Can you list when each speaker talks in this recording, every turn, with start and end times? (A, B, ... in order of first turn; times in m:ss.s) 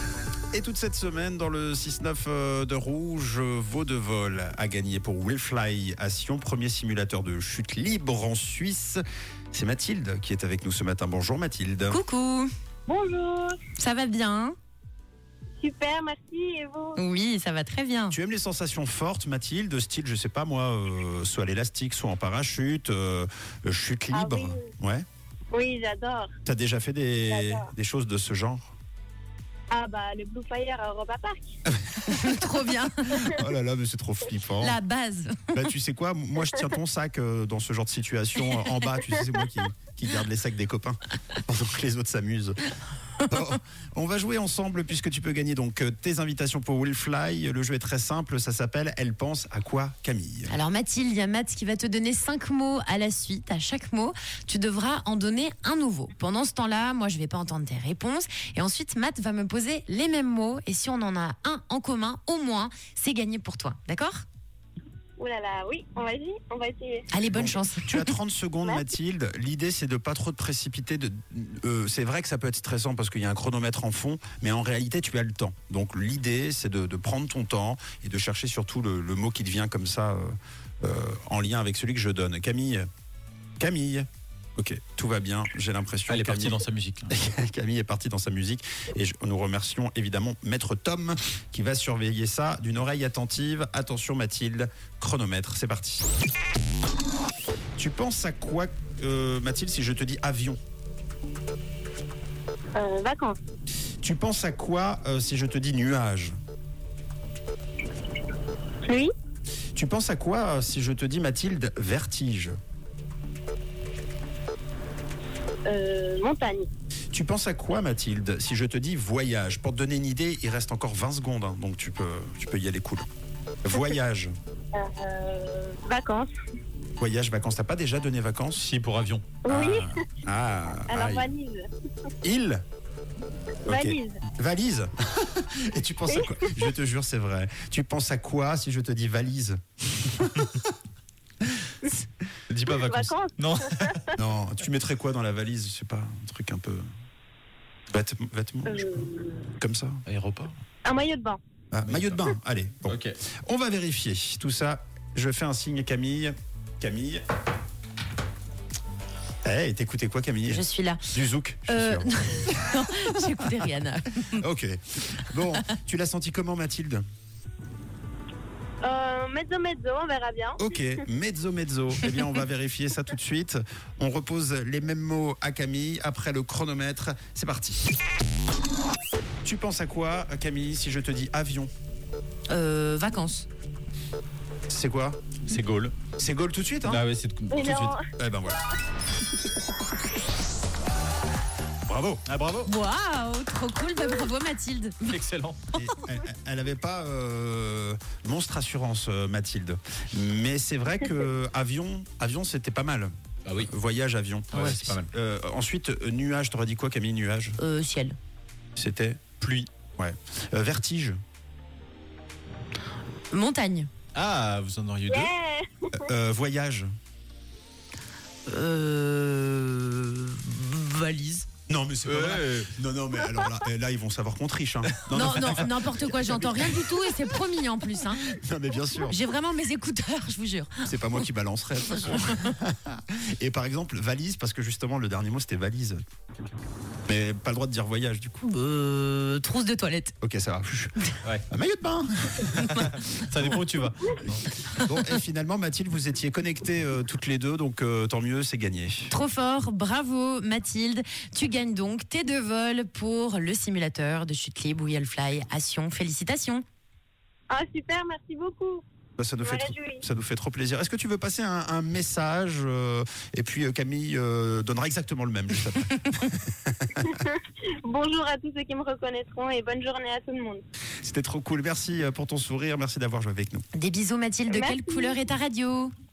0:00.5-0:12.0 A
0:11.9-0:12.5 B
0:12.9-0:13.6 C
0:13.8-0:14.5 B
0:15.6-0:17.0 C
0:17.0-0:18.1 B
0:18.1-0:25.0 A
0:24.1-0:24.7 C
0:25.5-0:26.3 C
0:26.4-0:28.7 A
0:27.3-0:27.7 C
0:29.7-0:31.6 C
0:31.7-0:32.4 A
0:32.1-0:33.4 B
0:33.2-0:34.8 A
0:34.6-0:35.7 B
0:35.5-0:42.6 A
0:43.2-0:50.5 A
0:50.5-1:04.2 B
1:05.2-1:07.1 C
1:07.1-1:08.1 B
1:07.3-1:22.8 A
1:23.6-1:36.1 A
1:26.1-1:27.1 D
1:37.8-1:40.6 A
1:42.8-1:43.4 C
1:44.0-1:46.3 A
1:48.9-1:49.1 C
1:49.7-1:52.6 A
1:55.7-1:56.7 C
1:57.1-2:03.1 A
2:03.6-2:04.3 A
2:04.7-2:06.3 C
2:07.0-2:08.6 A
2:08.6-2:09.3 D
2:09.4-2:10.0 C
2:09.5-2:11.3 A
2:10.9-2:11.7 C
2:12.2-2:12.6 A
2:13.6-2:20.7 A
2:13.7-2:14.2 C
2:16.1-2:16.6 C
2:22.5-2:24.0 D
2:22.7-2:24.1 C
2:24.2-2:26.9 A
2:27.9-2:29.0 A
2:28.6-2:29.5 C
2:29.6-2:30.0 A
2:30.0-2:30.6 D
2:30.8-2:31.4 C
2:31.7-2:37.2 A
2:31.9-2:32.2 D
2:32.8-2:33.2 D
2:39.4-2:42.1 A
2:40.5-2:41.1 B
2:41.7-2:44.4 B
2:44.3-2:47.0 A
2:48.8-2:50.9 C
2:50.6-2:57.9 A
2:59.4-3:01.7 A
3:02.5-3:03.5 B
3:04.7-3:05.2 A
3:05.4-3:06.0 D
3:06.2-3:07.0 A
3:06.9-3:07.9 D
3:07.5-3:08.0 C
3:08.2-3:08.6 A
3:11.9-3:12.2 A
3:12.3-3:12.7 D
3:12.6-3:15.2 B
3:15.1-3:15.6 D
3:15.7-3:27.6 A
3:23.4-3:23.7 D
3:24.5-3:24.8 D
3:24.5-3:24.9 B
3:27.6-3:28.2 B
3:28.8-3:29.3 A
3:29.4-3:29.7 D
3:30.0-3:31.2 A
3:33.3-3:33.9 B
3:34.1-3:35.3 D
3:35.1-3:36.0 C
3:36.0-3:36.9 A
3:38.5-3:41.4 B
3:41.7-3:47.3 A
3:42.0-3:42.7 D
3:45.1-3:48.2 B
3:48.2-3:49.2 A
3:49.0-3:51.2 B
3:50.8-3:56.0 A
3:51.9-3:52.5 B
3:57.1-3:58.4 A
3:58.4-4:00.1 B
4:00.2-4:01.0 A
4:01.5-4:03.0 A
4:02.5-4:04.4 D
4:04.2-4:09.1 A
4:04.7-4:05.0 B
4:09.1-4:16.6 B
4:17.5-4:18.8 C
4:19.2-4:27.2 A
4:19.4-4:20.0 C
4:27.1-4:30.6 C
4:31.0-4:33.6 A
4:33.7-4:35.9 B
4:34.5-4:35.2 C